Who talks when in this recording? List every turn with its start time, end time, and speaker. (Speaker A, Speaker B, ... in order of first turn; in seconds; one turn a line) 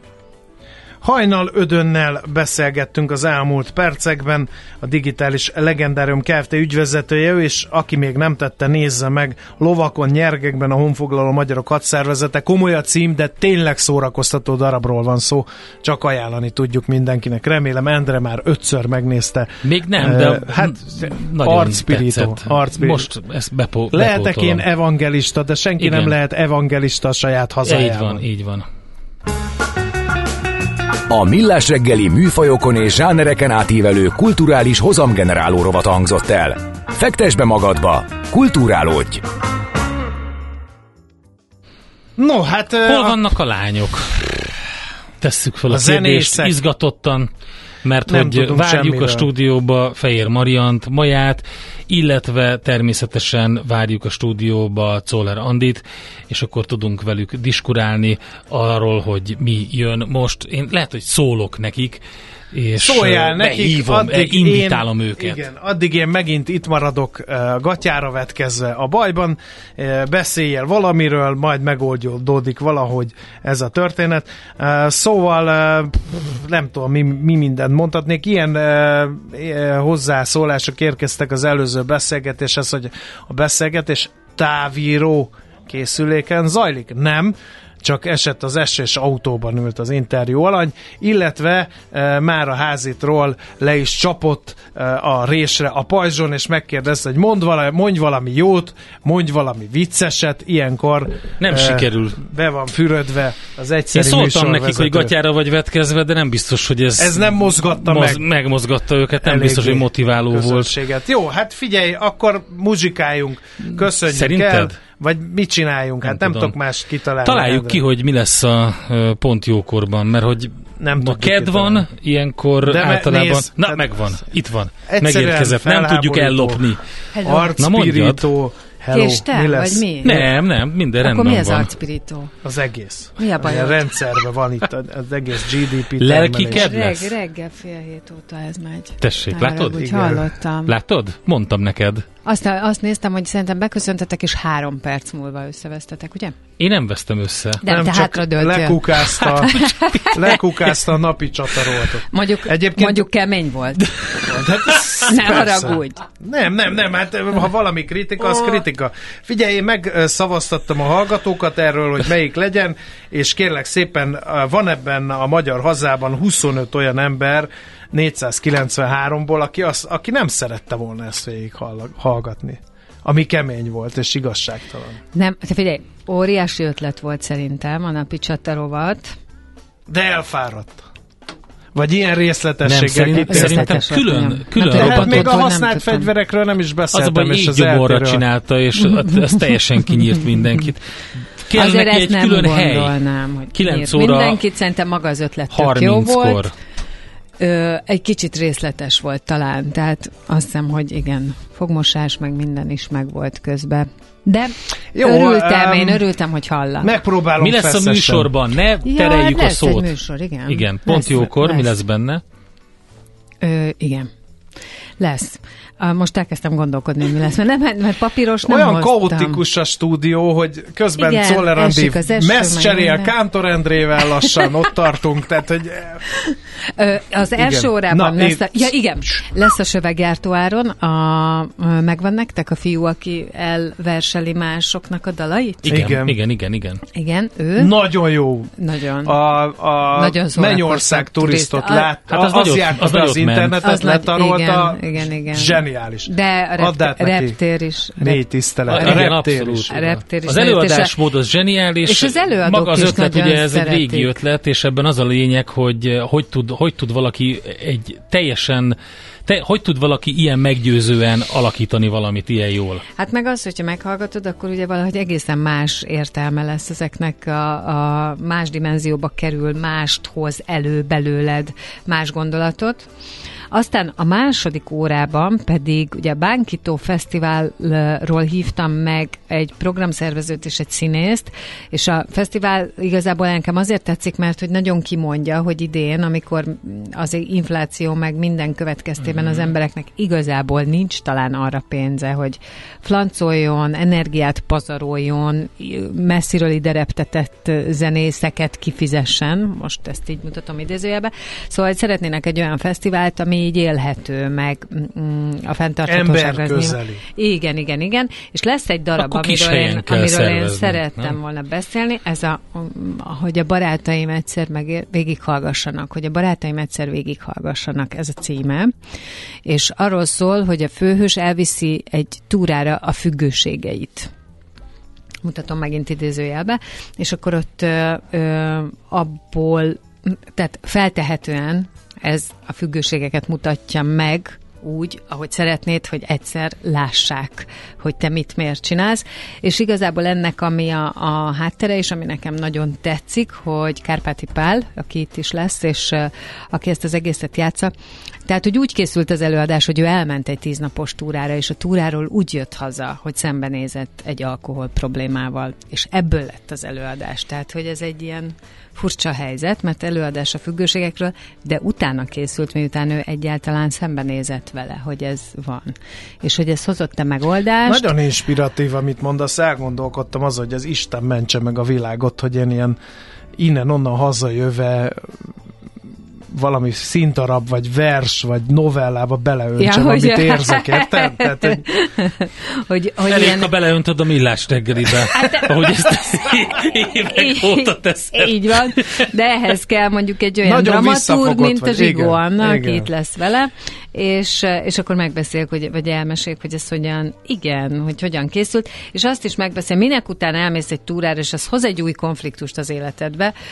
Speaker A: 1.0-23.1
Speaker B: 19.6-24.6
Speaker A: 23.9-28.2
Speaker B: 25.8-26.1
Speaker B: 27.6-28.7
Speaker C: 31.1-39.2
Speaker A: 42.2-43.2
Speaker B: 42.9-44.2
Speaker B: 45.2-47.3
Speaker A: 45.7-46.5
Speaker B: 47.8-62.0
Speaker A: 48.1-49.3
Speaker B: 62.5-65.4
Speaker A: 62.8-105.1
Speaker B: 101.4-102.2
Speaker B: 103.9-110.7
Speaker A: 107.0-108.2
Speaker A: 109.2-117.8
Speaker B: 113.7-114.7
Speaker B: 116.0-116.5
Speaker B: 117.2-126.8
Speaker A: 120.8-121.9
Speaker A: 122.6-124.1
Speaker A: 124.9-126.7
Speaker D: 127.1-127.5
Speaker A: 127.2-130.3
Speaker B: 127.6-128.2
Speaker D: 128.9-130.2
Speaker B: 130.0-131.7
Speaker D: 131.0-132.3
Speaker A: 132.4-136.7
Speaker D: 133.2-133.8
Speaker B: 136.0-137.1
Speaker D: 136.5-140.7
Speaker B: 139.0-139.9
Speaker A: 139.7-140.2
Speaker B: 140.7-142.0
Speaker D: 142.2-146.3
Speaker B: 146.6-147.6
Speaker D: 147.6-150.3
Speaker A: 147.7-153.1
Speaker D: 152.1-153.8
Speaker A: 154.2-175.0
Speaker D: 155.0-156.0
Speaker D: 175.1-179.1
Speaker A: 179.9-180.8
Speaker A: 181.7-183.8
Speaker B: 182.6-185.3
Speaker D: 183.3-186.1
Speaker A: 184.6-188.2
Speaker B: 186.9-190.8
Speaker D: 188.8-190.2
Speaker B: 191.4-193.0
Speaker D: 191.5-196.5
Speaker B: 193.5-194.4
Speaker B: 195.5-196.5
Speaker D: 197.4-206.9
Speaker A: 204.9-206.0
Speaker A: 206.8-208.3
Speaker B: 207.4-209.9
Speaker D: 208.8-211.7
Speaker B: 210.5-212.2
Speaker D: 213.4-214.1
Speaker D: 215.0-219.4
Speaker A: 218.4-226.0
Speaker D: 221.0-223.1
Speaker D: 224.0-224.5
Speaker D: 226.1-235.7
Speaker A: 227.3-229.3
Speaker B: 235.6-236.8
Speaker A: 235.7-236.2
Speaker D: 236.9-237.7
Speaker A: 237.6-238.5
Speaker D: 238.6-239.1
Speaker A: 239.0-247.4
Speaker D: 239.9-241.9
Speaker B: 242.1-243.6
Speaker D: 243.6-249.2
Speaker A: 248.0-249.7
Speaker B: 248.7-262.8
Speaker D: 249.7-250.9
Speaker D: 251.8-254.1
Speaker D: 263.0-272.9
Speaker D: 273.5-318.7
Speaker A: 305.9-307.0
Speaker B: 309.0-311.1
Speaker D: 319.4-324.1
Speaker D: 325.2-347.7
Speaker D: 348.2-367.9
Speaker A: 367.6-372.8
Speaker A: 373.4-375.2
Speaker A: 376.3-381.6
Speaker D: 379.6-383.5
Speaker B: 383.0-388.9
Speaker D: 385.0-386.0
Speaker D: 387.1-403.3
Speaker A: 390.4-392.9